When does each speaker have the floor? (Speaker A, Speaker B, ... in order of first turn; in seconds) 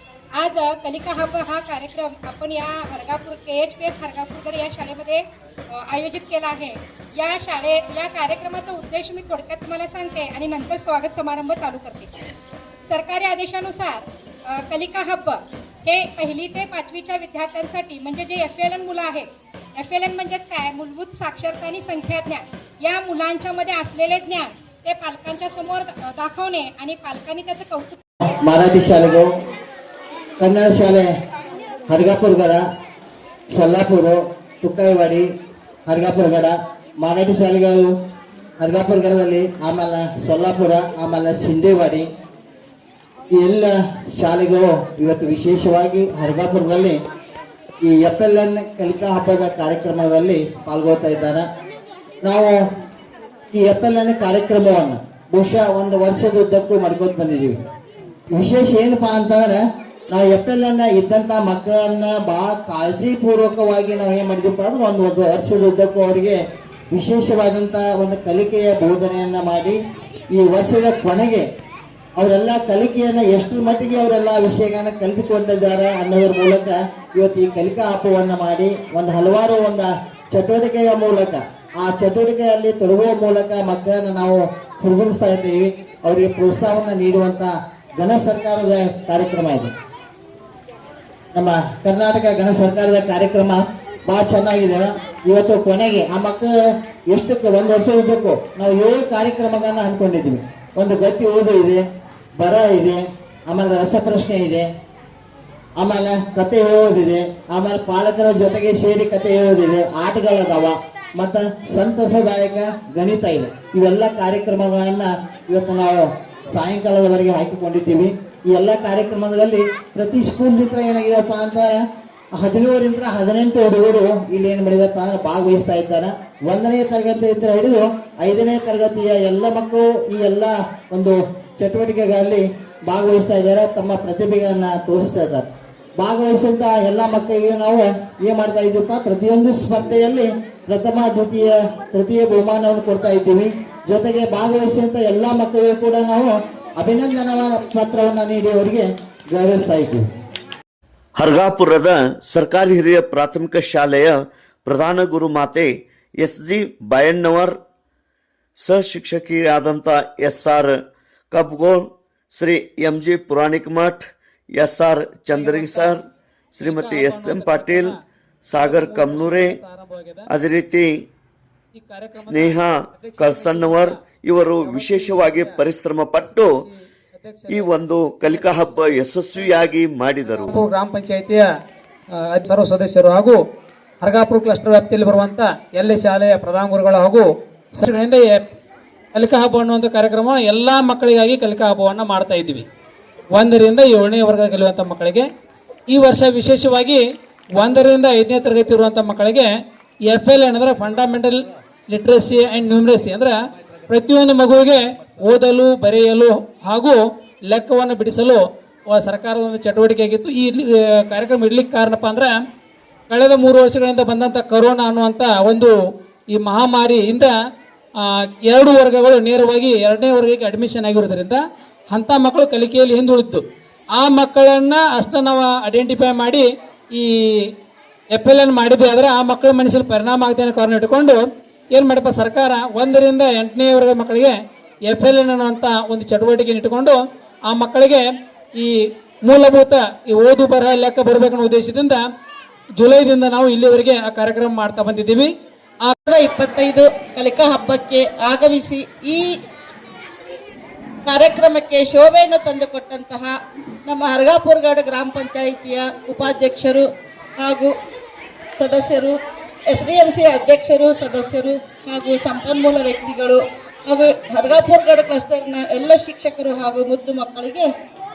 Speaker A: 0.4-12.1, 12.9-28.0
Speaker B: 28.3-29.3, 30.4-31.1, 31.9-32.6, 33.5-35.2, 35.9-37.9, 38.6-42.0, 43.3-47.0, 47.8-51.5, 52.2-52.5, 53.5-57.5, 58.3-66.4, 66.9-69.8, 70.3-71.5, 72.2-89.7, 91.3-96.5, 97.1-101.8, 102.4-104.7, 105.8-150.0
Speaker C: 151.2-157.6, 158.6-160.7, 161.3-164.0, 164.5-166.0, 166.6-167.9, 168.4-169.6, 170.3-170.9, 172.2-176.6, 177.5-180.6
Speaker D: 165.3-166.0, 166.6-167.9, 168.6-170.3, 171.7-174.0, 174.5-175.6, 176.2-179.0, 180.3-181.4, 182.3-183.4, 184.0-188.5, 189.1-192.6, 193.3-195.2, 195.9-197.0, 197.6-199.5, 200.1-203.3, 203.9-207.0, 207.5-208.4, 208.9-212.3, 213.1-215.7, 216.3-217.3, 218.4-221.4, 221.9-223.4, 224.0-227.1, 228.1-231.1, 231.7-234.3, 234.9-237.0, 237.5-238.1, 239.2-242.0, 242.8-245.3
Speaker E: 246.1-249.3, 251.1-253.3, 253.8-256.8, 257.4-257.7, 258.6-259.1, 259.7-267.7